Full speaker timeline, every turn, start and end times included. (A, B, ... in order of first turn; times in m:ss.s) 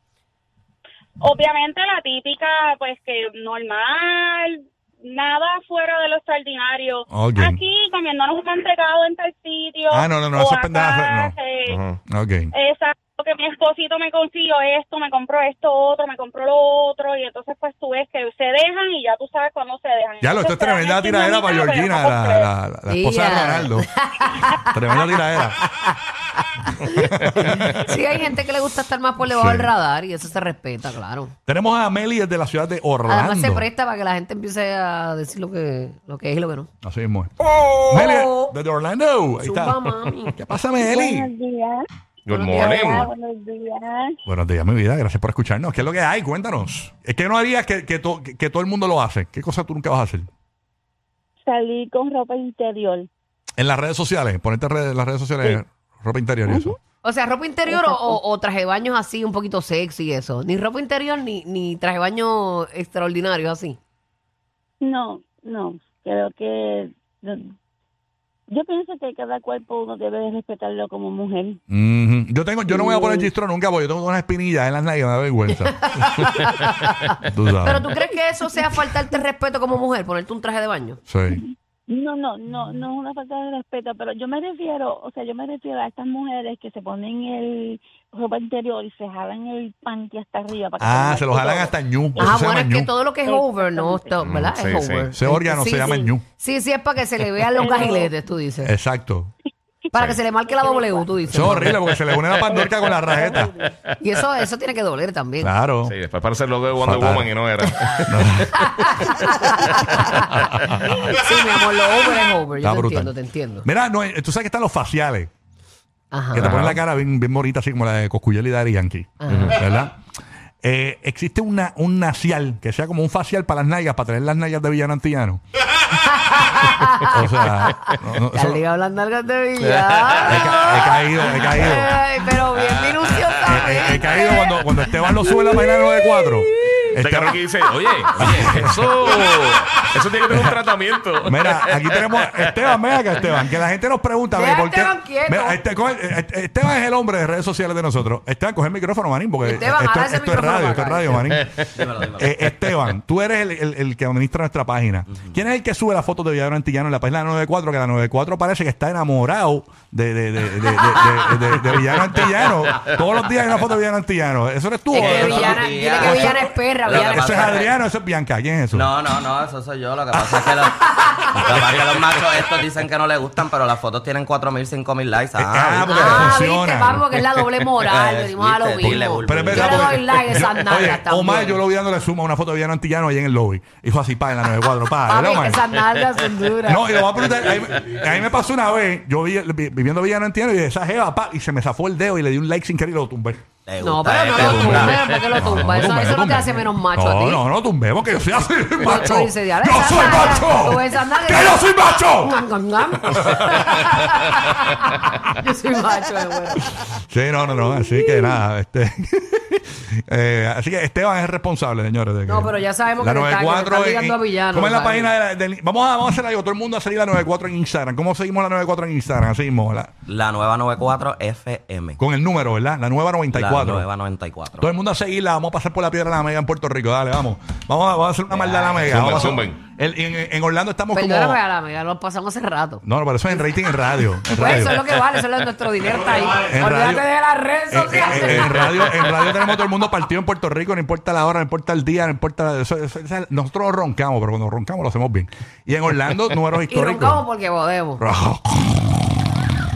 0:01.2-0:11.8 A
0:07.1-0:07.6 B
0:09.9-0:11.4 B
0:11.7-0:12.0 C
0:12.1-0:12.5 B
0:12.5-0:22.5 A
0:20.2-0:23.9 B
0:22.9-0:31.3 D
0:24.5-0:25.6 B
0:26.9-0:27.9 B
0:29.2-0:29.7 B
0:31.5-0:33.7 B
0:33.1-0:36.7 D
0:36.8-0:37.3 B
0:37.9-0:41.3 B
0:37.9-0:38.6 D
0:39.4-0:40.4 D
0:40.8-0:41.9 E
0:42.3-0:43.1 C
0:42.3-0:43.0 D
0:42.6-0:44.2 E
0:44.3-0:50.3 B
0:51.4-0:53.1 E
0:53.6-0:56.8 B
0:56.5-0:56.8 E
0:57.0-1:03.8 D
0:57.6-0:58.2 E
1:04.8-1:07.6 E
1:08.5-1:11.6 E
1:11.7-1:16.2 B
1:12.7-1:13.3 E
1:15.8-1:21.0 D
1:17.2-1:17.9 B
1:21.1-1:21.4 B
1:21.3-1:32.4 E
1:30.8-1:32.9 B
1:32.2-1:35.8 D
1:33.2-1:34.2 E
1:34.2-1:35.1 C
1:35.1-1:36.3 B
1:35.6-1:36.1 E
1:36.3-1:38.7 D
1:37.5-1:38.1 E
1:38.6-1:39.3 B
1:39.9-1:41.7 D
1:40.0-1:40.2 C
1:40.4-1:41.8 E
1:41.3-1:43.5 B
1:43.1-1:43.6 E
1:43.6-1:44.0 C
1:44.0-1:45.5 D
1:45.4-1:46.0 B
1:45.8-1:49.2 C
1:46.8-1:47.3 B
1:48.1-1:48.7 B
1:48.7-1:50.2 D
1:49.7-1:50.0 C
1:50.3-1:50.8 B
1:51.1-1:53.6 D
1:52.6-1:55.3 B
1:56.1-1:56.4 D
1:56.3-2:00.0 B
1:56.4-1:56.8 C
1:59.2-1:59.5 D
1:59.3-1:59.6 C
2:00.6-2:05.4 B
2:06.1-2:07.7 D
2:07.0-2:08.6 B
2:08.3-2:17.0 D
2:09.6-2:10.4 C
2:10.2-2:11.9 B
2:12.6-2:13.5 C
2:13.4-2:17.4 B
2:17.0-2:22.5 C
2:18.1-2:19.0 B
2:20.3-2:20.6 B
2:21.2-2:49.0 B
2:24.3-2:25.6 D
2:29.4-2:31.3 D
2:31.8-2:32.2 F
2:44.9-2:47.7 D
2:44.9-2:47.7 F
2:48.7-2:50.8 F
2:50.8-2:51.4 D
2:51.4-2:56.5 F
2:51.5-2:52.5 C
2:55.4-2:57.0 B
2:55.8-3:01.6 D
2:57.9-3:00.3 F
2:59.2-3:05.6 B
3:00.1-3:00.8 C
3:05.1-3:06.9 D
3:06.6-3:13.4 B
3:13.7-3:15.1 F
3:13.8-3:17.4 D
3:14.3-3:22.4 B
3:15.3-3:15.6 C
3:18.8-3:24.7 D
3:23.1-3:23.9 B
3:25.4-3:26.8 D
3:26.9-3:39.9 B
3:27.8-3:28.4 D
3:32.3-3:35.1 D
3:40.1-3:42.0 F
3:42.0-3:43.9 B
3:43.3-3:44.7 F
3:44.6-3:51.4 B
3:48.3-3:48.7 F
3:48.7-3:49.6 C
3:50.9-3:53.6 D
3:52.8-3:54.8 B
3:54.3-3:58.7 D
3:56.4-3:57.1 B
3:57.7-4:07.2 B
3:58.4-3:58.9 C
4:06.7-4:08.0 D
4:08.0-4:09.0 B